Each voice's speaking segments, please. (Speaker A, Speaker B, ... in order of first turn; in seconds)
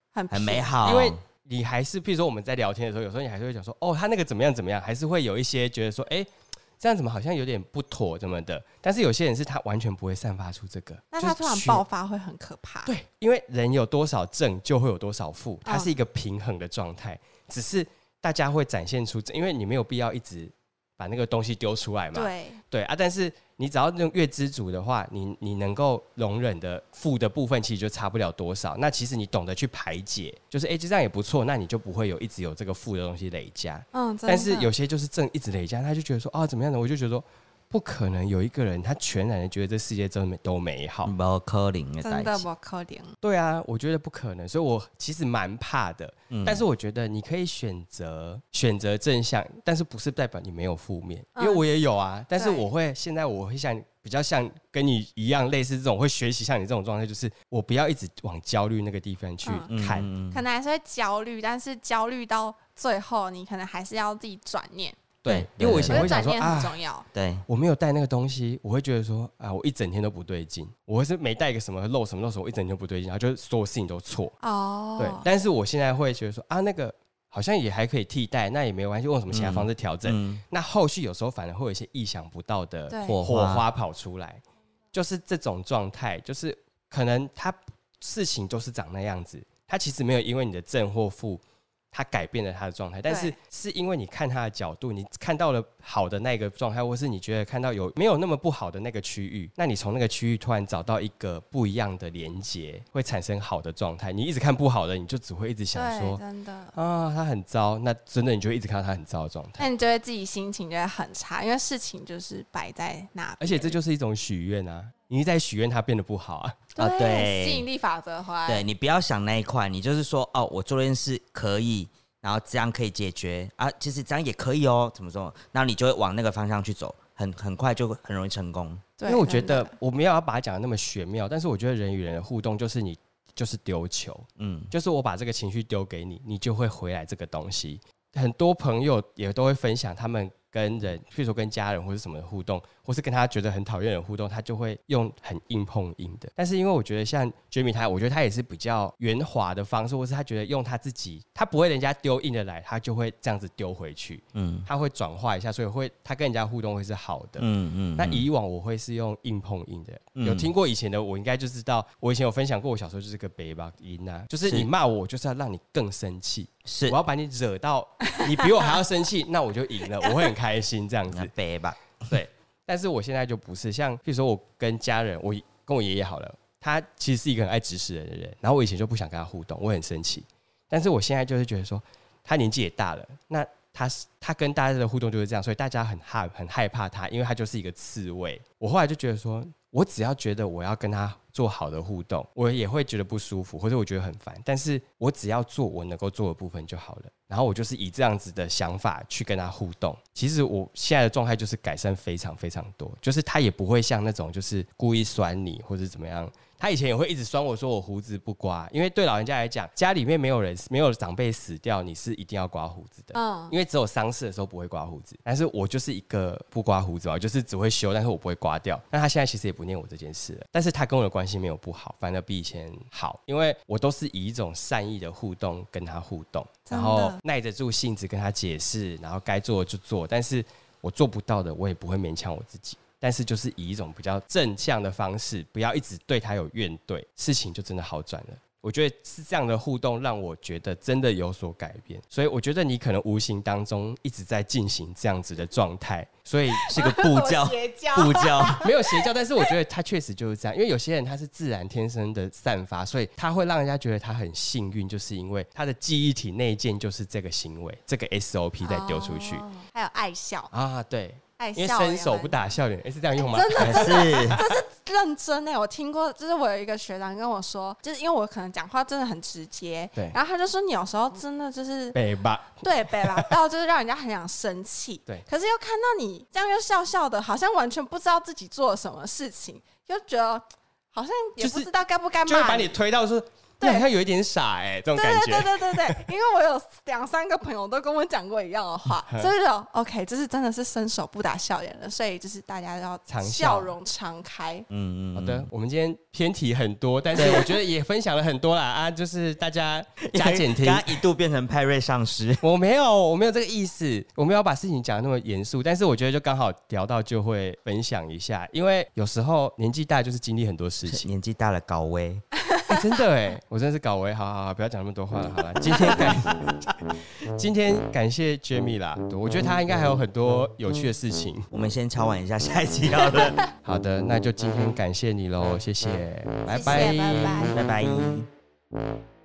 Speaker A: 0.1-1.0, 11.1-12.9, 15.7-15.9, 22.1-22.6, 33.9-34.7, 42.0-43.1, 51.4-51.6, 52.4-52.7, 59.4-59.7, 60.3-65.0, 65.8-67.1, 74.4-75.3, 82.9-83.2, 93.1-93.3, 105.7-106.7, 109.6-113.8, 116.8-118.7, 129.0-129.7, 168.4-168.7, 213.1-213.5, 226.7-227.2, 246.7-249.1, 258.6-260.5, 261.4-262.4, 263.2-272.0, 272.6-282.7, 283.6-283.9, 284.9-294.7, 323.0-323.4, 326.5-327.6
Speaker B: 0.3-1.2, 41.0-42.5, 46.3-46.6, 59.7-60.4, 65.3-66.2, 67.1-67.5, 79.3-80.4, 83.0-83.7, 116.8-117.7, 118.5-128.9, 134.4-134.7, 154.3-154.7, 157.4-158.3, 160.2-160.5, 166.7-167.0, 171.1-172.1, 246.7-248.6, 263.6-264.4, 294.7-295.5, 297.1-297.5, 300.0-302.4, 310.9-312.2, 315.8-316.2, 321.5-323.4, 326.5-328.3
Speaker C: 0.8-6.3, 6.8-11.8, 12.9-41.1, 43.2-60.1, 65.2-66.8, 67.5-74.3, 75.0-84.4, 84.9-106.2, 106.7-109.7, 113.4-116.7, 129.1-171.3, 172.1-246.8, 248.5-259.4, 260.5-264.6, 271.9-273.3, 281.4-281.7, 282.3-286.1, 288.9-289.3, 293.1-293.7, 295.1-301.0, 302.4-311.1, 312.7-316.6, 317.4-321.5, 323.6-327.5